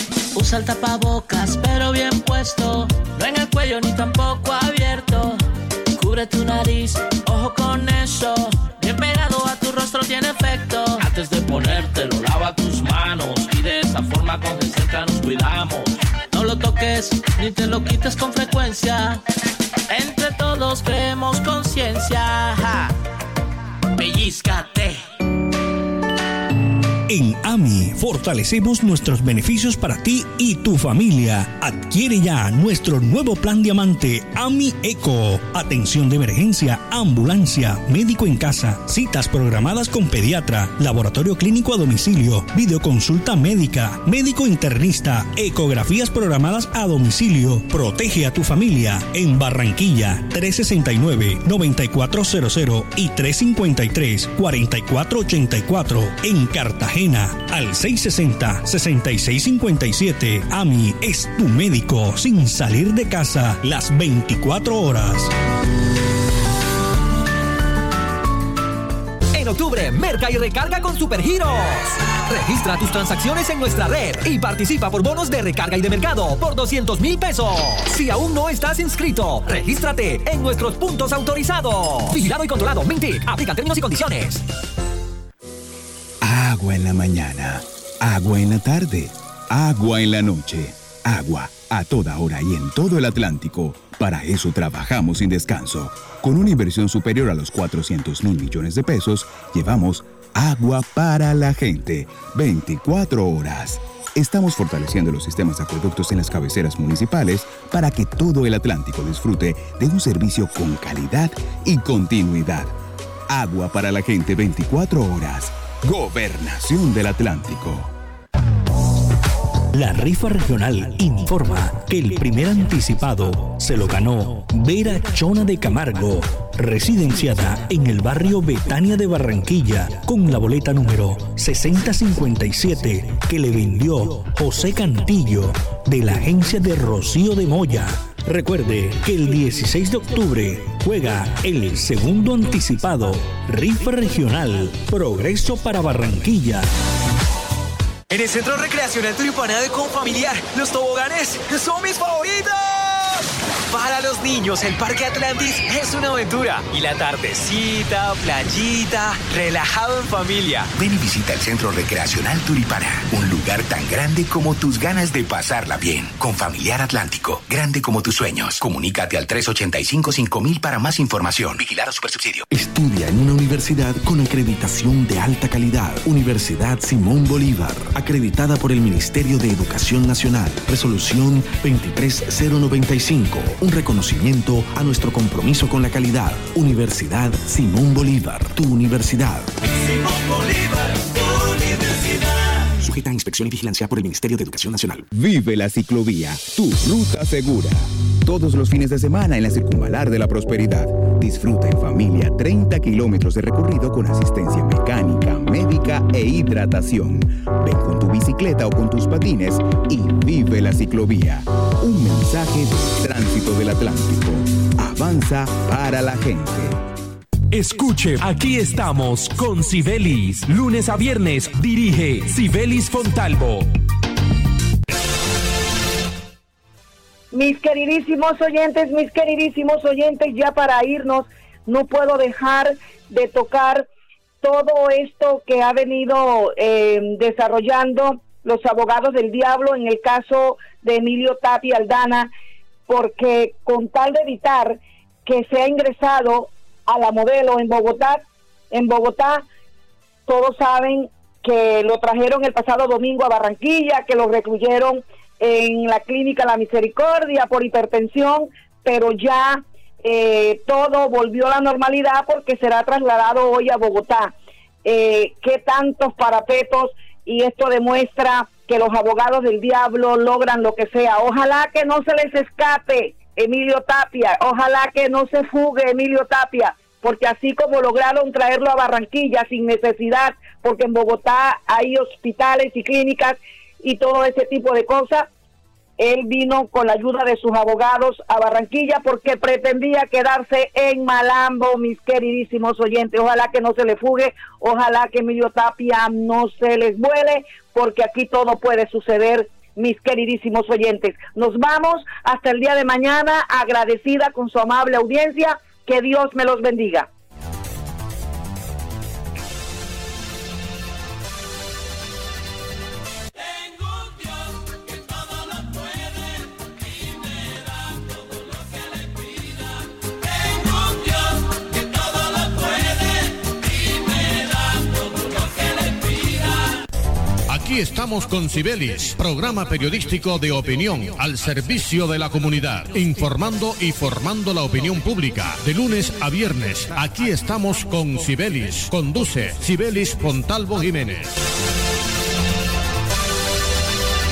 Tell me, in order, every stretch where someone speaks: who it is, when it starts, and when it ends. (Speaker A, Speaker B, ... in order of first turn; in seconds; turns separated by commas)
Speaker A: 0.3-5.4, Speaker A: 6.0-19.2, Speaker A: 19.9-22.9, Speaker A: 23.9-25.0, Speaker B: 27.1-65.3, Speaker C: 69.3-84.4, Speaker D: 86.2-112.7, Speaker D: 113.3-117.9, Speaker B: 119.7-146.7, Speaker E: 148.1-153.1, Speaker E: 153.7-160.7, Speaker F: 160.7-172.5, Speaker G: 172.5-189.5, Speaker E: 189.8-192.7, Speaker G: 192.8-195.1, Speaker D: 195.1-216.8, Speaker H: 217.5-223.7, Speaker I: 227.3-233.9, Speaker I: 234.4-242.3, Speaker I: 242.9-249.4, Speaker I: 250.3-264.3, Speaker I: 264.8-285.3, Speaker I: 286.0-307.1, Speaker E: 320.7-321.1, Speaker J: 327.5-341.3